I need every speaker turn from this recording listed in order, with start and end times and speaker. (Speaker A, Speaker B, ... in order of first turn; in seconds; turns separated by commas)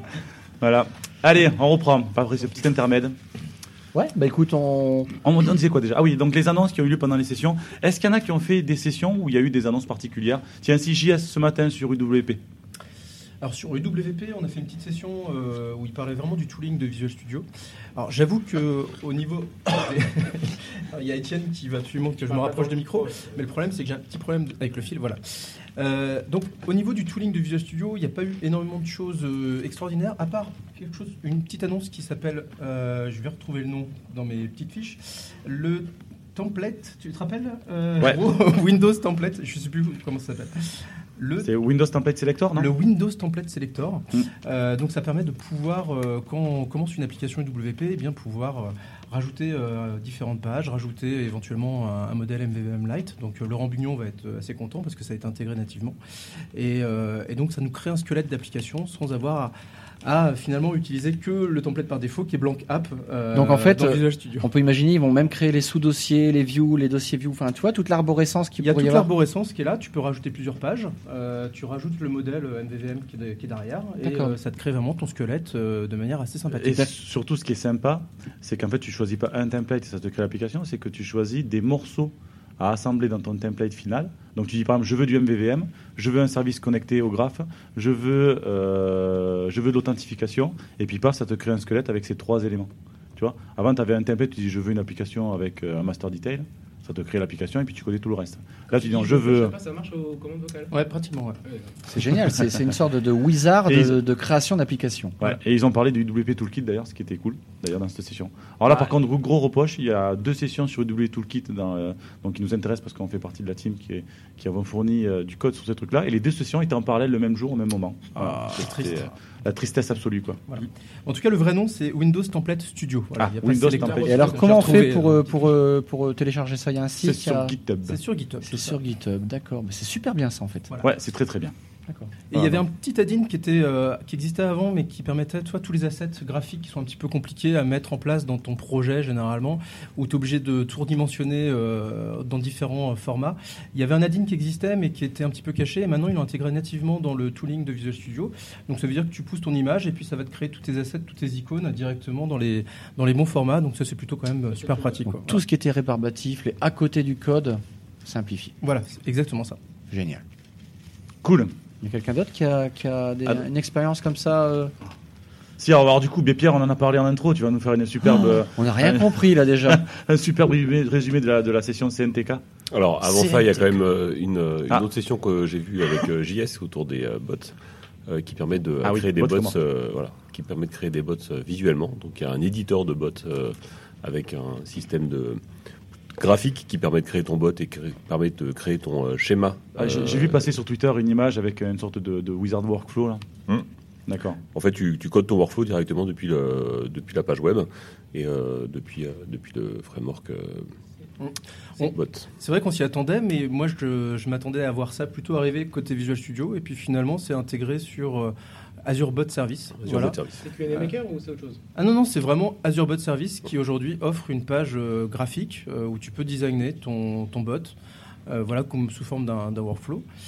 Speaker A: 0.6-3.1, Speaker B: 3.9-5.1, Speaker A: 5.2-12.4, Speaker C: 13.4-41.5, Speaker D: 22.2-23.3, Speaker A: 38.0-38.3, Speaker A: 41.4-42.7, Speaker C: 42.5-56.0, Speaker C: 56.5-64.5, Speaker B: 63.3-69.1, Speaker C: 68.6-76.9, Speaker B: 74.0-74.3, Speaker A: 76.5-99.5, Speaker D: 98.7-100.8, Speaker C: 100.7-101.4, Speaker D: 101.4-101.7, Speaker B: 101.8-105.2, Speaker A: 103.7-104.0, Speaker A: 105.2-120.4, Speaker C: 118.5-119.1, Speaker C: 120.5-125.3, Speaker A: 123.2-124.8, Speaker D: 123.6-125.0, Speaker B: 124.0-127.5, Speaker A: 127.0-128.0, Speaker C: 127.9-128.8, Speaker B: 128.4-130.7, Speaker A: 130.8-131.5, Speaker C: 132.3-155.4, Speaker A: 132.3-132.6, Speaker D: 154.5-155.1, Speaker B: 155.1-158.5, Speaker C: 158.6-159.6, Speaker B: 159.9-160.2, Speaker A: 161.2-161.5, Speaker B: 161.8-164.7, Speaker A: 165.6-172.4, Speaker B: 168.1-169.8, Speaker E: 172.7-177.5, Speaker B: 173.0-173.4, Speaker E: 178.1-185.4, Speaker A: 178.8-179.6, Speaker E: 186.1-190.5, Speaker A: 189.8-193.2, Speaker A: 194.1-194.4, Speaker E: 194.5-200.7, Speaker C: 201.2-210.2, Speaker E: 201.8-202.3, Speaker E: 209.8-210.4, Speaker D: 210.3-211.6, Speaker C: 211.7-217.7, Speaker C: 218.3-220.0